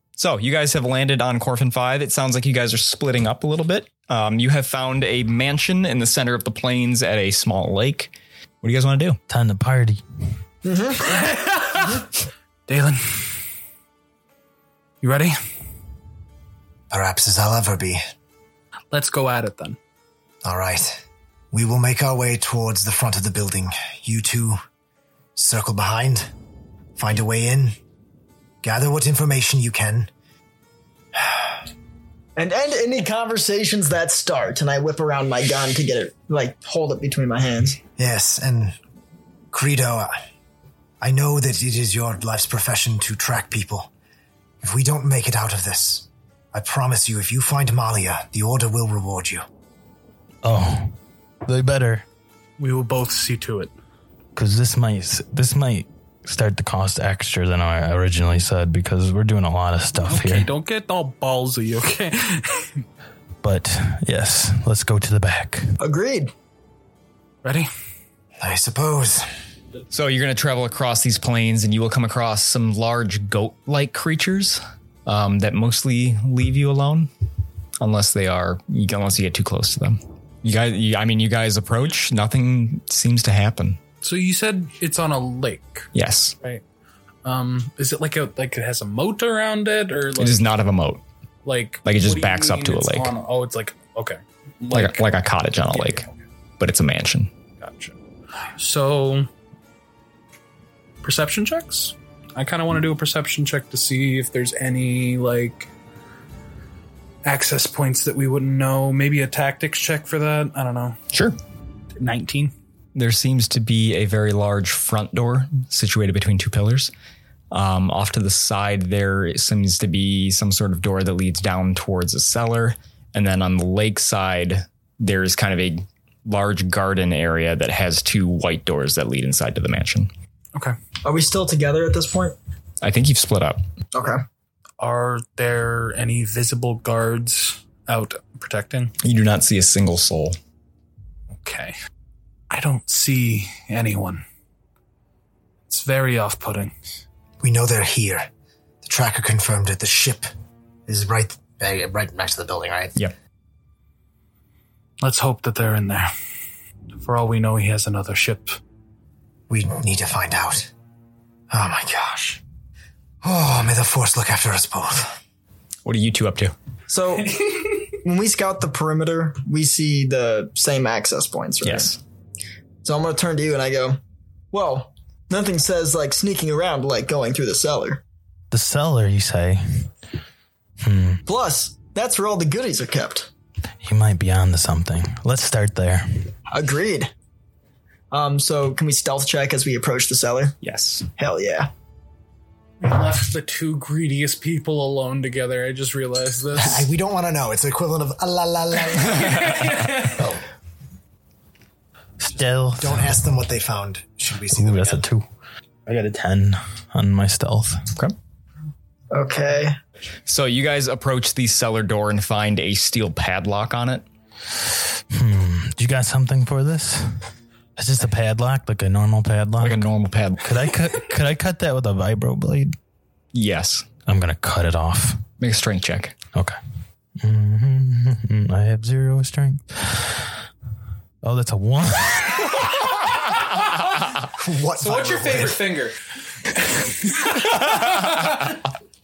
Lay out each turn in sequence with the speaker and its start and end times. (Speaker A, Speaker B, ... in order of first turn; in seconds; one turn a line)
Speaker A: 0.2-9.2
Speaker B: 9.3-10.0
Speaker C: 10.6-11.4
Speaker D: 11.1-12.0
Speaker D: 12.7-13.4
Speaker D: 15.0-15.4
Speaker E: 16.9-18.0
Speaker D: 18.9-19.8
Speaker E: 20.4-24.6
Speaker E: 25.4-26.3
Speaker E: 27.0-27.8
Speaker E: 28.6-30.1
Speaker C: 32.4-37.8
Speaker E: 38.0-38.8
Speaker E: 39.5-40.1
Speaker E: 41.0-43.9
Speaker E: 44.6-49.4
Speaker B: 50.4-52.0
Speaker D: 52.6-53.7
Speaker B: 54.4-60.5
Speaker D: 60.0-62.8
Speaker B: 63.4-65.7
Speaker C: 65.8-66.3
Speaker D: 67.4-67.7
Speaker E: 68.4-69.3
Speaker A: 69.9-77.1
Speaker A: 77.8-83.8
Speaker D: 84.0-85.9
Speaker A: 86.0-86.4
Speaker D: 87.2-90.5
Speaker A: 90.2-91.0
Speaker D: 91.5-95.1
Speaker A: 91.8-93.1
Speaker A: 94.7-96.0
Speaker D: 95.7-96.1
Speaker A: 96.6-97.3
Speaker D: 97.6-97.9
Speaker D: 98.6-99.3
Speaker D: 101.0-105.7
Speaker D: 107.2-111.0
Speaker A: 111.1-111.4
Speaker D: 112.0-112.5
Speaker A: 113.0-116.9
Speaker A: 117.5-130.1
Speaker C: 131.0-132.4
Speaker A: 132.8-133.6
Speaker C: 133.9-134.2
Speaker D: 134.8-138.9
Speaker A: 139.0-140.4
Speaker D: 141.4-141.8
Speaker D: 142.5-144.2
Speaker D: 145.7-146.7
Speaker E: 147.4-148.3
Speaker E: 148.8-150.3
Speaker E: 150.9-152.9
Speaker D: 155.0-156.1
Speaker D: 157.0-158.6
Speaker E: 159.5-160.7
Speaker E: 161.5-162.4
Speaker E: 163.2-165.1
Speaker A: 165.8-166.5
Speaker C: 166.9-171.9
Speaker A: 171.6-172.0
Speaker C: 172.8-174.0
Speaker C: 174.5-178.0
Speaker B: 178.5-179.9
Speaker B: 180.8-181.2
Speaker C: 181.3-183.3
Speaker B: 183.8-186.3
Speaker C: 186.5-187.1
Speaker C: 188.1-190.6
Speaker A: 190.6-191.1
Speaker C: 191.2-191.7
Speaker D: 192.8-196.8
Speaker E: 196.6-199.6
Speaker D: 199.2-200.2
Speaker B: 202.2-203.1
Speaker E: 202.8-205.1
Speaker B: 204.5-205.3
Speaker B: 205.9-207.8
Speaker C: 209.1-209.8
Speaker A: 210.3-214.1
Speaker B: 214.6-219.8
Speaker A: 219.6-220.5
Speaker B: 220.4-222.8
Speaker A: 223.3-223.9
Speaker B: 224.1-225.2
Speaker A: 225.4-226.2
Speaker B: 227.2-230.3
Speaker B: 231.2-232.8
Speaker E: 234.3-235.6
Speaker D: 234.8-235.9
Speaker D: 236.8-238.4